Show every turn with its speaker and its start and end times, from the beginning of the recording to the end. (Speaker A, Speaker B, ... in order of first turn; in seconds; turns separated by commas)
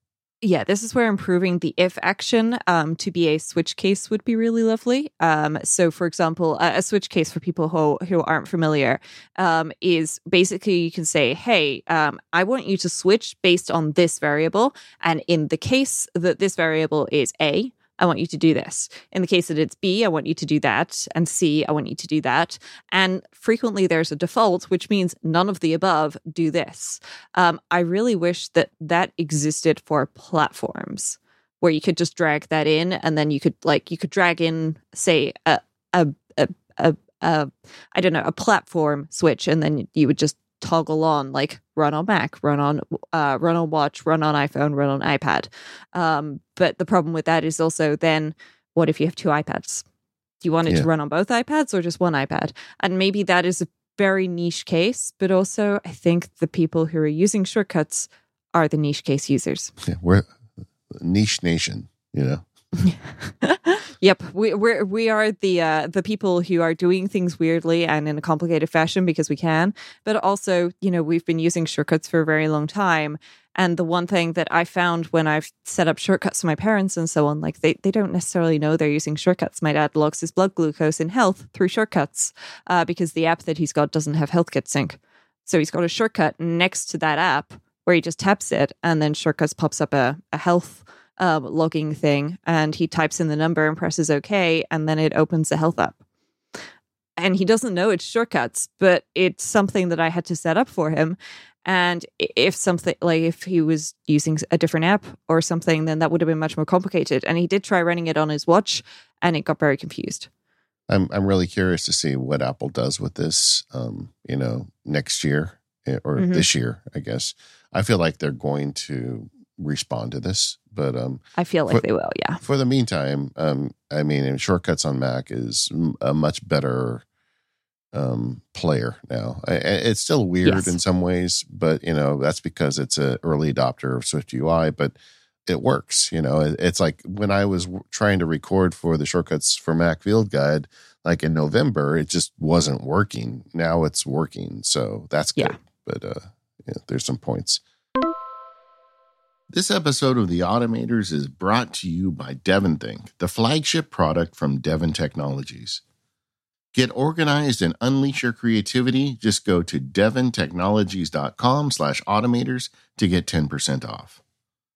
Speaker A: 0.4-49.8, Speaker A: 50.4-59.7, Speaker B: 59.8-60.3, Speaker B: 60.9-62.4, Speaker A: 62.8-96.0, Speaker A: 97.2-110.3, Speaker B: 110.9-121.8, Speaker A: 116.2-116.5, Speaker A: 121.4-122.4, Speaker B: 122.4-127.0, Speaker B: 127.9-134.9, Speaker A: 130.4-130.8, Speaker B: 135.5-147.6, Speaker B: 149.5-155.8, Speaker B: 156.7-164.2